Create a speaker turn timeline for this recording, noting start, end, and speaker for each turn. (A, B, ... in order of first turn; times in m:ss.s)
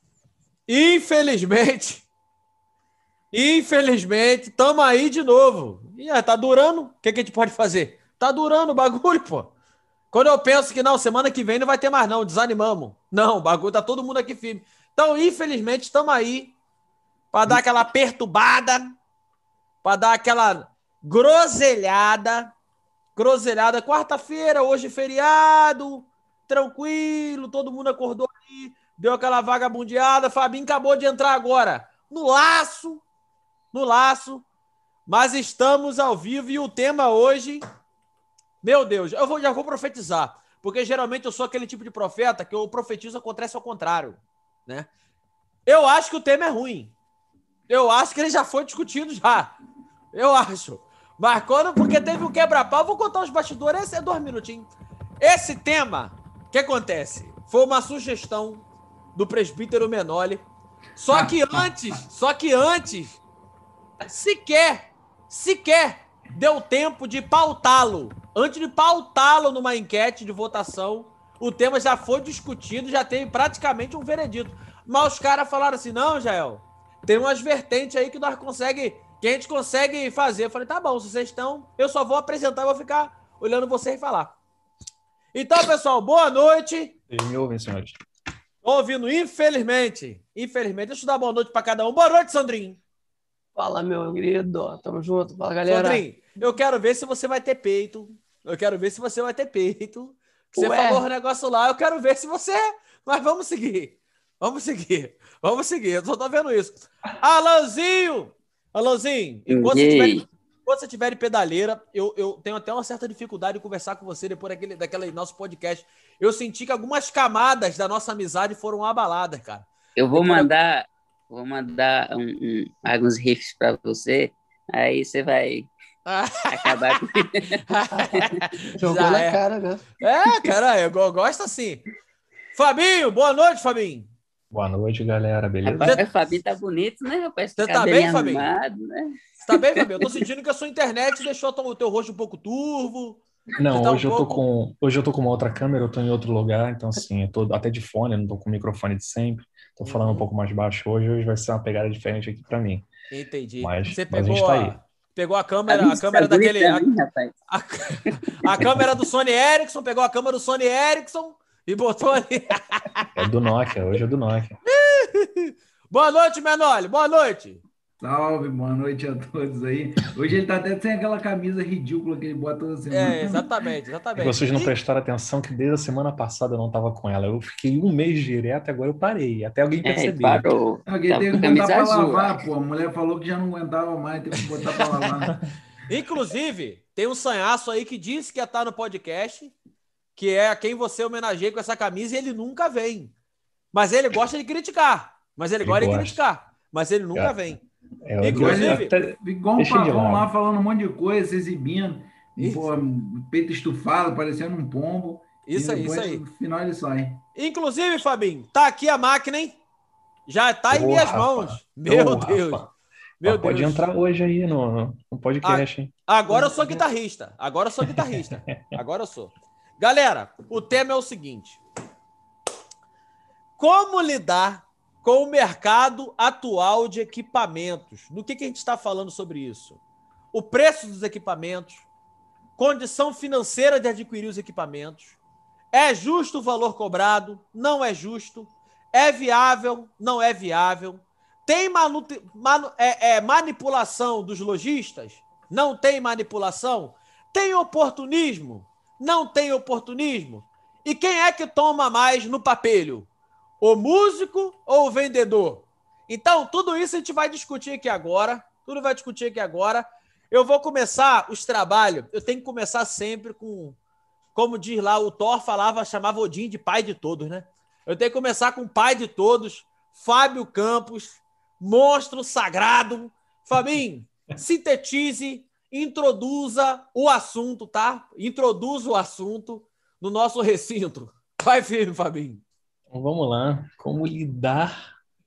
0:00.7-0:02.1 A
0:03.3-0:09.5 A
0:10.1-0:16.5 A
0:17.3-0:19.0 A
0:19.8-0:22.5 A
0:23.2-0:33.0 A
0:33.7-0:34.4 A
0:35.1-0:37.6 A
0:38.6-0:44.9 A
0:45.6-0:46.9 A
0:47.7-0:49.5 A
0:50.1-0:54.7 A
0:55.2-0:58.6 A
0:59.1-1:03.2 A
1:01.1-1:01.4 B
1:04.0-1:24.4 A
1:25.3-1:27.0 A
1:27.1-1:28.0 C
1:28.6-1:32.8 A
1:33.6-1:36.0 D
1:35.6-2:00.5 A
1:40.6-1:41.0 D
1:49.5-1:50.2 E
2:00.0-2:05.7 E
2:06.0-2:07.0 A
2:06.5-2:08.4 E
2:07.7-2:09.4 A
2:08.8-2:09.8 D
2:10.0-2:11.8 A
2:12.5-2:14.1 A
2:14.5-2:16.0 C
2:15.6-2:20.2 E
2:17.6-2:18.5 A
2:19.4-2:24.4 A
2:23.6-2:32.9 C
2:29.8-2:30.3 A
2:33.1-2:36.9 A
2:33.6-2:34.8 C
2:35.7-2:37.3 E
2:37.5-2:43.1 A
2:38.1-2:38.8 E
2:43.1-2:44.6 C
2:44.6-2:47.6 A
2:48.0-2:53.5 B
2:52.9-2:54.7 A
2:54.1-3:00.5 C
2:59.8-3:02.4 E
3:00.9-3:05.4 B
3:05.9-3:09.5 A
3:10.2-3:13.1 A
3:13.7-3:17.6 A
3:15.6-3:16.2 C
3:18.0-3:20.3 C
3:18.2-3:18.9 A
3:18.3-3:27.2 B
3:22.4-3:22.7 A
3:25.4-3:26.2 A
3:27.4-3:29.6 A
3:30.3-3:32.6 A
3:30.7-3:32.7 C
3:33.2-3:33.9 A
3:33.2-3:35.9 C
3:35.4-3:41.6 A
3:37.8-3:38.8 C
3:43.6-3:49.8 A
3:50.3-3:51.9 A
3:52.6-3:55.2 A
3:55.7-4:13.1 A
4:13.6-4:23.8 A
4:24.3-4:42.4 A
4:42.9-4:44.8 C